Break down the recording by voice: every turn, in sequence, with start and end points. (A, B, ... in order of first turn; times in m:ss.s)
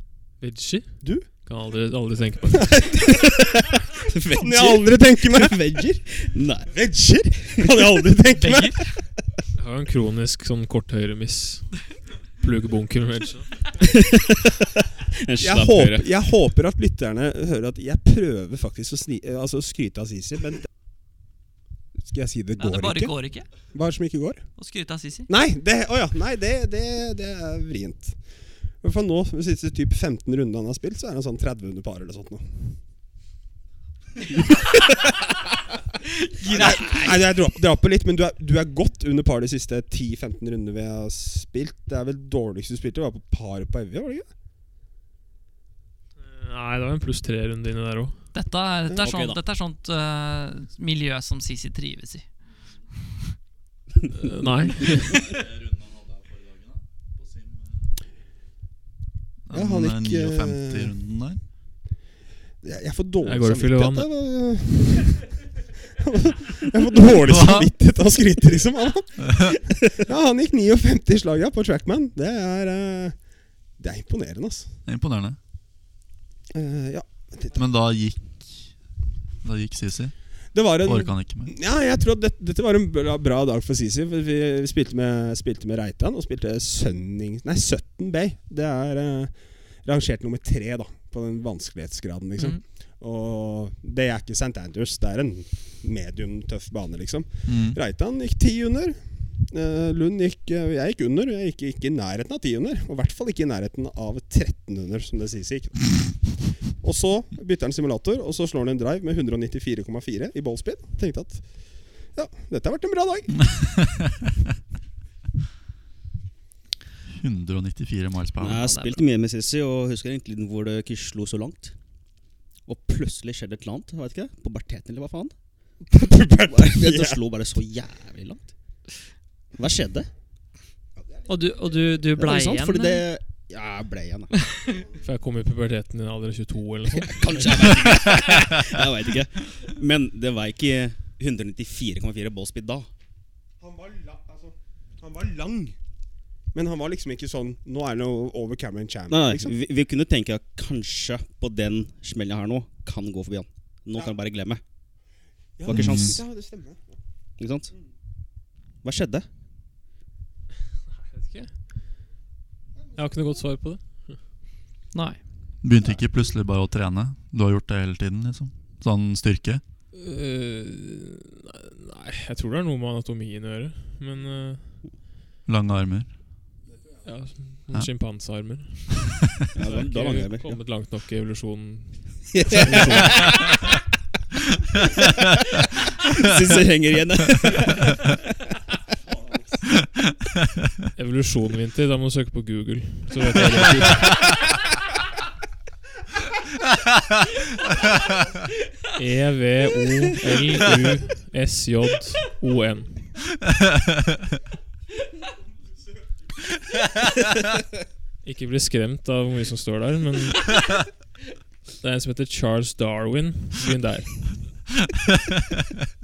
0:00.4-0:02.9 A
0:02.5-0:03.6 B
0:03.2-0:06.8 C
0:04.3-0:06.0 B
0:06.7-0:09.3 B
0:08.4-0:09.0 D
0:09.6-0:13.7 A
0:13.8-0:16.1 C
0:15.4-0:20.7 B
0:22.0-0:24.5 B
0:22.6-0:23.5 D
0:24.6-0:25.3 D
0:25.3-0:32.8 B
0:36.2-0:37.2 D
0:36.4-0:44.3 B
0:46.2-0:48.2 A
0:48.3-0:52.2 D
0:49.0-0:49.4 C
0:54.1-0:55.3 A
0:59.5-1:01.4 E
0:59.5-1:01.0 B
1:02.6-1:05.4 B
1:03.2-1:04.1 A
1:05.9-1:13.2 B
1:07.2-1:07.7 E
1:09.2-1:09.6 E
1:13.8-1:14.7 B
1:14.9-1:15.4 E
1:16.5-1:17.6 B
1:17.6-1:18.7 E
1:19.4-1:20.2 E
1:20.5-1:53.5 B
1:20.8-1:21.5 E
1:37.5-1:37.8 E
1:57.1-1:58.7 E
1:58.4-2:01.8 C
1:58.5-1:59.0 D
2:02.7-2:05.4 C
2:05.9-2:07.2 B
2:06.5-2:08.5 C
2:09.6-2:10.1 C
2:11.3-2:13.0 D
2:12.2-2:14.4 C
2:14.5-2:14.8 D
2:15.0-2:17.7 A
2:17.0-2:22.9 C
2:23.6-2:25.8 B
2:26.5-2:29.6 B
2:29.1-2:34.6 C
2:35.6-2:37.0 B
2:35.6-2:36.2 C
2:35.7-2:36.2 E
2:37.4-2:37.7 C
2:38.8-2:39.3 C
2:41.1-2:41.5 A
2:43.0-2:44.2 A
2:44.9-2:45.2 D
2:45.6-2:49.6 E
2:49.9-2:54.8 A
2:55.5-2:56.1 E
2:57.0-3:03.3 A
2:59.5-3:00.6 C
3:02.3-3:03.5 C
3:06.0-3:08.1 C
3:09.1-3:09.6 B
3:11.0-3:14.2 A
3:18.9-3:23.1 A
3:28.2-3:30.7 A
3:31.8-3:34.6 A